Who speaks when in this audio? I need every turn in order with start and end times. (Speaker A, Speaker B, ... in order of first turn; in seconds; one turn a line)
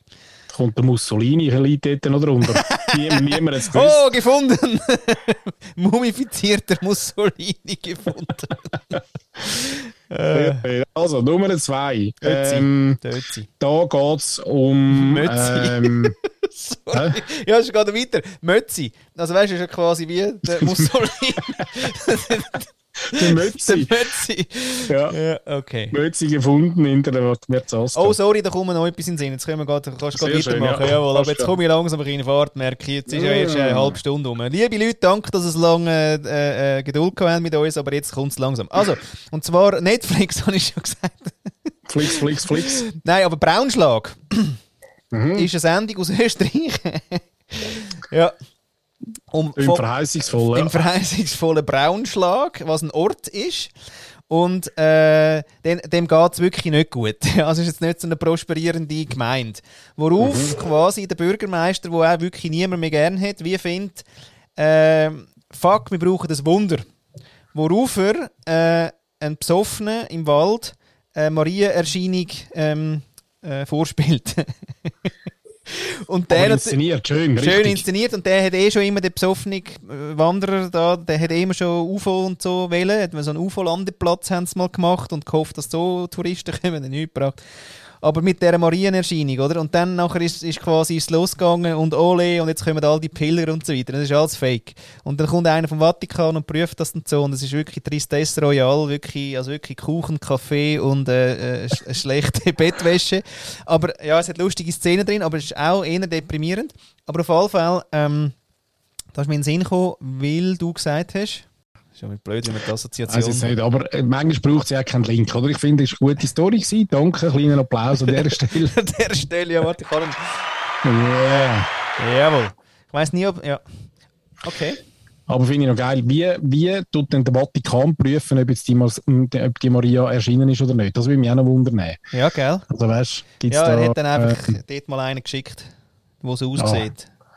Speaker A: 0.5-4.0
Speaker B: 2.5-10.6
Speaker A: 10.3-13.0
Speaker B: 12.2-13.5
Speaker A: 13.6-16.1
Speaker B: 14.9-25.9
Speaker A: 16.9-17.2
Speaker A: 20.5-21.6
Speaker A: 23.1-23.9
Speaker A: 24.9-25.1
Speaker A: 25.9-28.2
Speaker B: 27.9-41.5
Speaker A: 30.1-31.5
Speaker A: 33.1-34.0
Speaker A: 41.9-42.8
Speaker B: 42.0-44.6
Speaker A: 45.1-45.5
Speaker B: 45.3-48.3
Speaker B: 49.3-53.7
Speaker A: 49.6-50.8
Speaker B: 54.3-64.0
Speaker A: 60.2-60.5
Speaker B: 64.6-66.9
Speaker B: 67.5-75.1
Speaker B: 75.7-76.8
Speaker A: 76.3-77.8
Speaker B: 77.4-87.4
Speaker B: 88.0-108.3
Speaker B: 109.1-113.5
Speaker A: 113.1-118.7
Speaker B: 118.0-120.4
Speaker A: 120.8-121.7
Speaker B: 121.3-123.6
Speaker B: 124.4-124.8
Speaker A: 125.3-132.0
Speaker B: 132.1-132.7
Speaker A: 132.7-134.5
Speaker B: 133.5-135.7
Speaker B: 136.2-137.1
Speaker A: 136.6-136.9